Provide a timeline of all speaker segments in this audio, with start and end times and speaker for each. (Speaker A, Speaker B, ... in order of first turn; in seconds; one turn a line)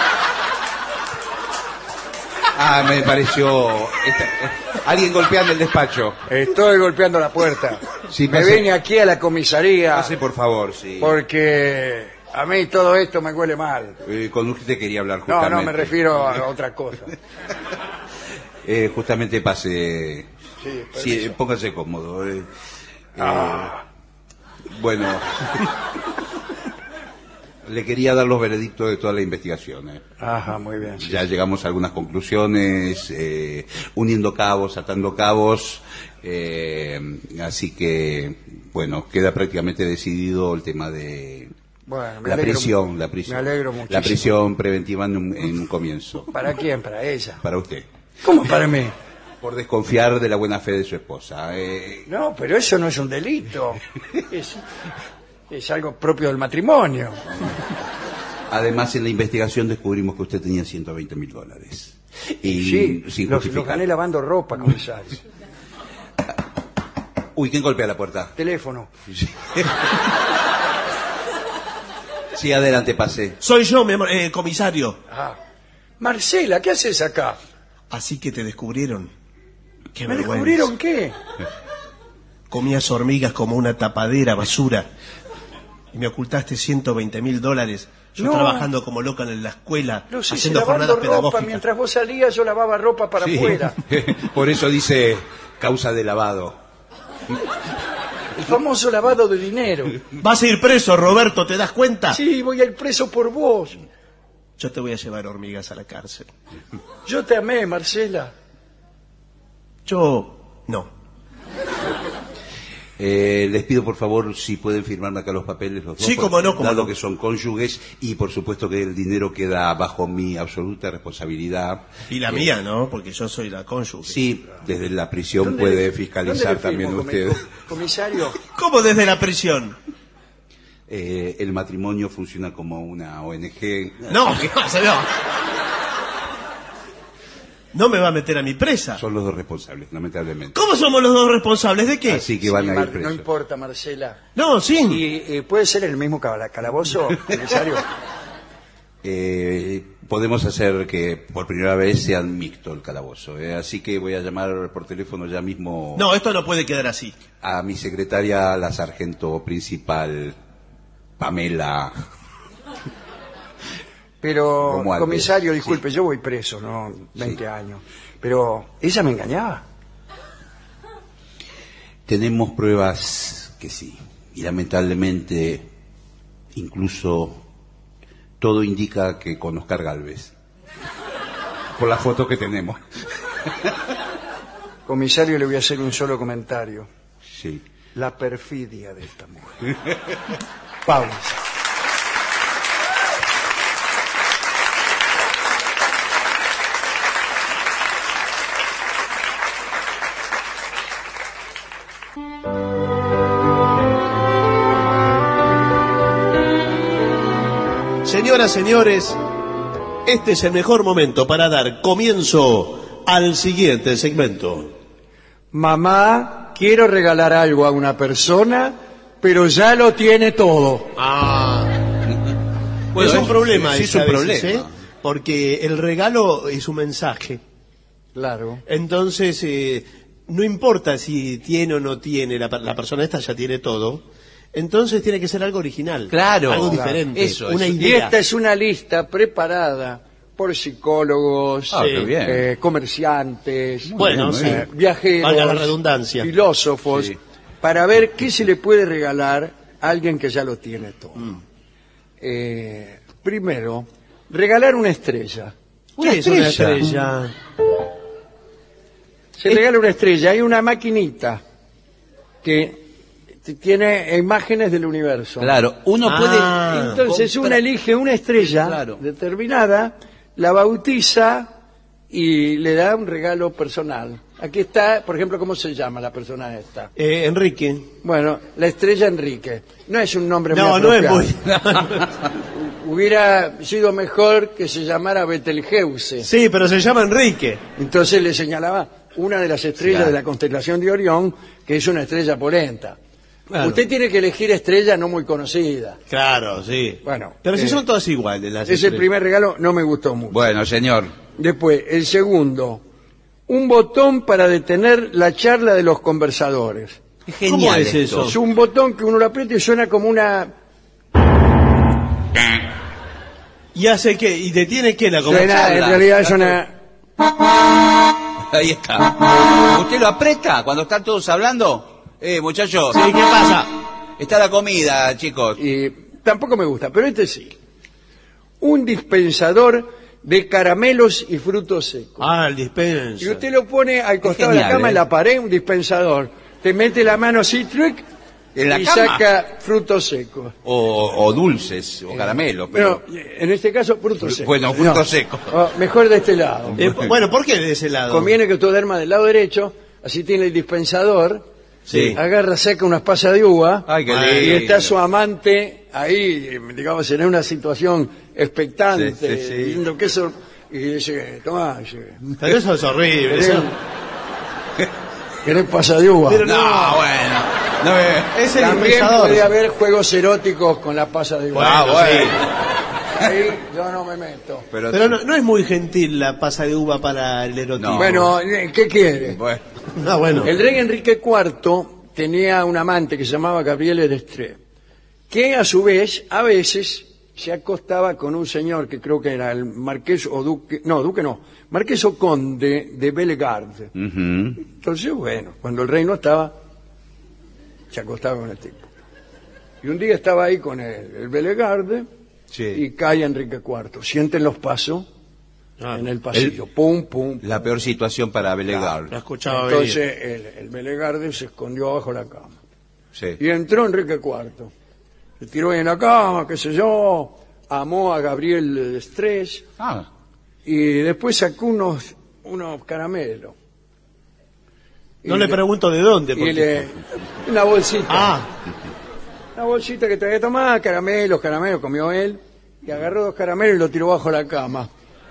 Speaker A: 2.5-6.2
Speaker B: 6.3-10.1
Speaker A: 8.1-8.7
Speaker A: 9.9-11.2
Speaker B: 11.0-14.0
Speaker A: 14.0-16.3
Speaker B: 15.3-17.1
Speaker A: 18.6-20.3
Speaker B: 20.6-21.4
Speaker A: 20.9-22.5
Speaker A: 23.1-23.8
Speaker B: 23.2-23.8
Speaker A: 24.7-25.7
Speaker A: 27.6-30.0
Speaker B: 30.2-31.2
Speaker A: 31.0-41.5
Speaker B: 41.9-42.8
Speaker A: 42.2-46.3
Speaker B: 43.3-44.2
Speaker B: 46.3-47.4
Speaker A: 47.4-47.9
Speaker B: 48.2-48.9
Speaker A: 49.4-52.1
Speaker B: 52.1-54.6
Speaker B: 55.5-57.2
Speaker A: 58.5-63.8
Speaker B: 62.5-65.2
Speaker A: 67.3-68.3
Speaker B: 68.4-68.9
Speaker A: 69.1-69.9
Speaker A: 72.3-73.4
Speaker C: 73.4-75.0
Speaker B: 75.1-75.4
Speaker B: 76.0-77.4
Speaker C: 77.9-79.1
Speaker C: 79.9-80.7
Speaker B: 80.1-81.1
Speaker C: 82.5-84.9
Speaker C: 85.9-91.6
Speaker B: 88.2-88.7
Speaker B: 90.1-93.8
Speaker A: 93.2-96.6
Speaker B: 98.3-100.0
Speaker C: 100.2-102.2
Speaker B: 102.1-103.8
Speaker C: 104.6-106.3
Speaker B: 107.0-108.3
Speaker C: 109.8-110.9
Speaker A: 113.0-122.5
Speaker C: 116.0-116.9
Speaker C: 122.1-124.2
Speaker A: 124.1-127.4
Speaker B: 125.4-128.4
Speaker C: 128.5-129.8
Speaker A: 130.9-134.4
Speaker C: 134.1-135.1
Speaker C: 137.7-139.0
Speaker A: 139.0-140.6
Speaker C: 140.5-142.2
Speaker A: 142.1-143.2
Speaker B: 142.4-144.2
Speaker C: 144.3-145.0
Speaker B: 144.9-147.9
Speaker A: 149.0-156.1
Speaker C: 155.9-157.2
Speaker A: 157.4-160.3
Speaker A: 161.2-162.0
Speaker B: 164.2-169.6
Speaker A: 164.6-165.7
Speaker A: 172.1-175.7
Speaker A: 176.5-177.4
Speaker A: 178.4-180.3
Speaker A: 181.8-182.8
Speaker A: 183.4-183.7
Speaker B: 184.9-186.9
Speaker A: 187.3-187.6
Speaker B: 187.9-189.7
Speaker B: 190.8-191.4
Speaker C: 208.0-209.2
Speaker C: 210.0-214.7
Speaker B: 215.5-220.9
Speaker C: 221.0-221.8
Speaker A: 222.1-222.3
Speaker A: 222.9-224.7
Speaker C: 222.9-227.4
Speaker B: 228.1-228.6
Speaker C: 228.7-238.1
Speaker A: 236.1-238.0
Speaker B: 236.7-237.0
Speaker B: 237.8-251.3
Speaker A: 241.7-242.4
Speaker C: 241.8-242.1
Speaker A: 243.8-244.6
Speaker C: 244.0-244.7
Speaker C: 245.2-246.3
Speaker A: 246.9-247.2
Speaker B: 252.2-255.5
Speaker A: 256.0-256.9
Speaker C: 256.0-257.3
Speaker B: 259.4-261.4
Speaker B: 262.4-262.9
Speaker B: 263.4-265.6
Speaker A: 265.4-267.6
Speaker C: 266.0-267.0
Speaker B: 266.7-271.5
Speaker A: 268.4-269.0
Speaker B: 272.1-276.9
Speaker C: 276.9-277.9
Speaker B: 278.0-281.3
Speaker C: 280.5-282.1
Speaker B: 282.5-286.3
Speaker C: 286.2-287.6
Speaker B: 287.8-293.0
Speaker A: 289.8-290.1
Speaker C: 293.5-293.8
Speaker B: 293.6-296.0
Speaker C: 296.1-299.1
Speaker B: 297.0-297.8
Speaker B: 298.6-300.4
Speaker A: 300.3-301.1
Speaker B: 301.4-302.8
Speaker B: 303.5-307.0
Speaker A: 307.2-308.4
Speaker C: 307.4-308.4
Speaker B: 308.2-310.5
Speaker C: 313.7-316.0
Speaker A: 315.3-316.5
Speaker B: 315.3-316.7
Speaker A: 318.4-323.1
Speaker C: 322.9-323.7
Speaker A: 324.2-325.6
Speaker B: 325.6-327.6
Speaker B: 328.6-332.3
Speaker C: 332.2-333.4
Speaker B: 333.2-338.0
Speaker A: 334.2-335.0
Speaker A: 338.5-339.2
Speaker B: 338.7-340.5
Speaker A: 340.6-343.0
Speaker B: 342.7-346.8
Speaker A: 344.2-345.5
Speaker A: 346.8-347.1
Speaker C: 346.8-348.3
Speaker B: 348.1-351.4
Speaker C: 351.9-352.2
Speaker B: 351.9-362.2
Speaker A: 353.9-354.9
Speaker C: 354.1-354.7
Speaker A: 358.9-359.8
Speaker C: 362.4-363.7
Speaker B: 363.3-363.7
Speaker B: 365.4-366.4
Speaker C: 366.3-367.0
Speaker A: 366.4-368.4
Speaker C: 368.3-369.5
Speaker B: 368.5-372.3
Speaker C: 371.5-372.4
Speaker A: 371.6-372.5
Speaker B: 373.1-374.7
Speaker A: 374.7-375.2
Speaker C: 374.9-378.3
Speaker A: 377.8-378.1
Speaker B: 377.9-379.4
Speaker A: 379.2-379.6
Speaker C: 380.0-380.5
Speaker B: 380.4-384.6
Speaker B: 385.3-393.9
Speaker A: 393.9-394.6
Speaker B: 394.6-396.5
Speaker B: 397.9-398.9
Speaker B: 399.8-402.1
Speaker A: 402.5-402.8
Speaker B: 402.7-405.1
Speaker B: 405.9-407.4
Speaker A: 407.4-409.1
Speaker C: 409.1-410.0
Speaker B: 409.5-412.6
Speaker B: 413.4-414.7
Speaker B: 415.4-419.6
Speaker A: 419.8-420.1
Speaker B: 420.6-423.5
Speaker B: 425.2-425.6
Speaker C: 425.2-426.9
Speaker B: 426.3-428.3
Speaker C: 428.1-428.5
Speaker B: 429.6-434.9